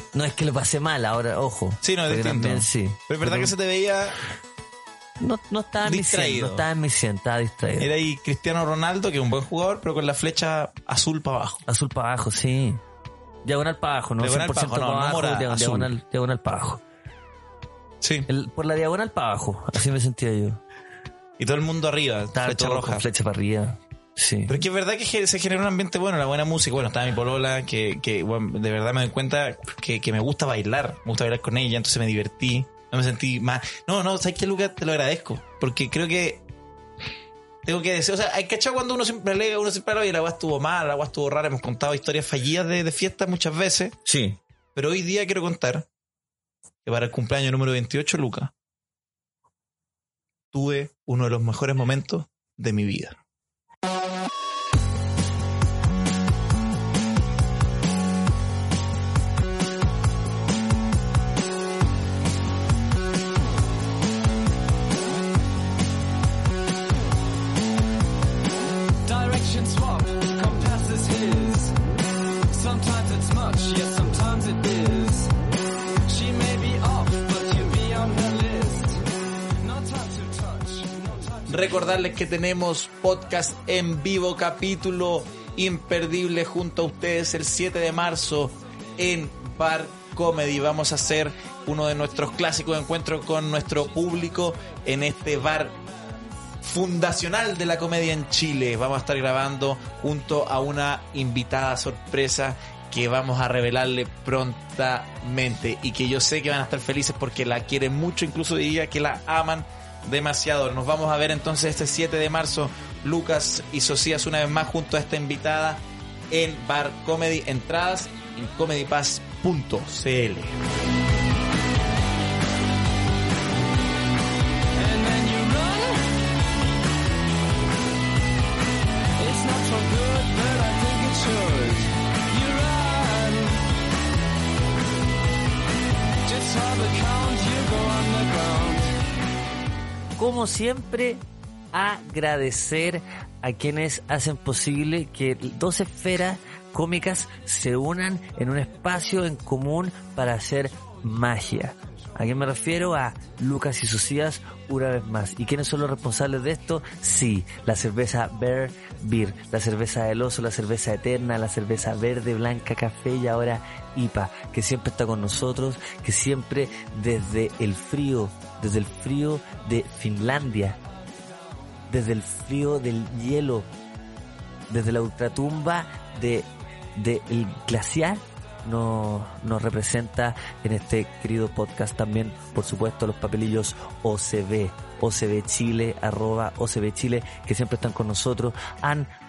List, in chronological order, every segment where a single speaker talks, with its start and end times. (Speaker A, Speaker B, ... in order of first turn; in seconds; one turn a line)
Speaker A: 0.1-3.5
Speaker B: 1.8-4.2
Speaker A: 5.2-7.9
Speaker B: 5.8-6.7
Speaker B: 7.8-11.6
Speaker A: 11.7-12.8
Speaker A: 13.4-16.8
Speaker B: 14.2-15.9
Speaker B: 18.0-18.3
Speaker A: 18.3-20.6
Speaker B: 21.4-23.1
Speaker A: 22.3-24.6
Speaker B: 24.5-36.4
Speaker B: 37.6-44.0
Speaker A: 44.0-44.4
Speaker B: 44.8-45.9
Speaker B: 46.9-48.5
Speaker B: 50.5-53.2
Speaker C: 69.0-71.8
Speaker C: 72.5-75.3
Speaker C: 76.1-79.0
Speaker C: 79.6-81.7
Speaker B: 81.5-95.8
Speaker B: 96.6-120.6
Speaker C: 124.8-126.2
Speaker C: 129.2-133.7
Speaker C: 136.2-139.0
Speaker A: 140.2-170.8
Speaker A: 171.9-173.7
Speaker A: 174.7-189.1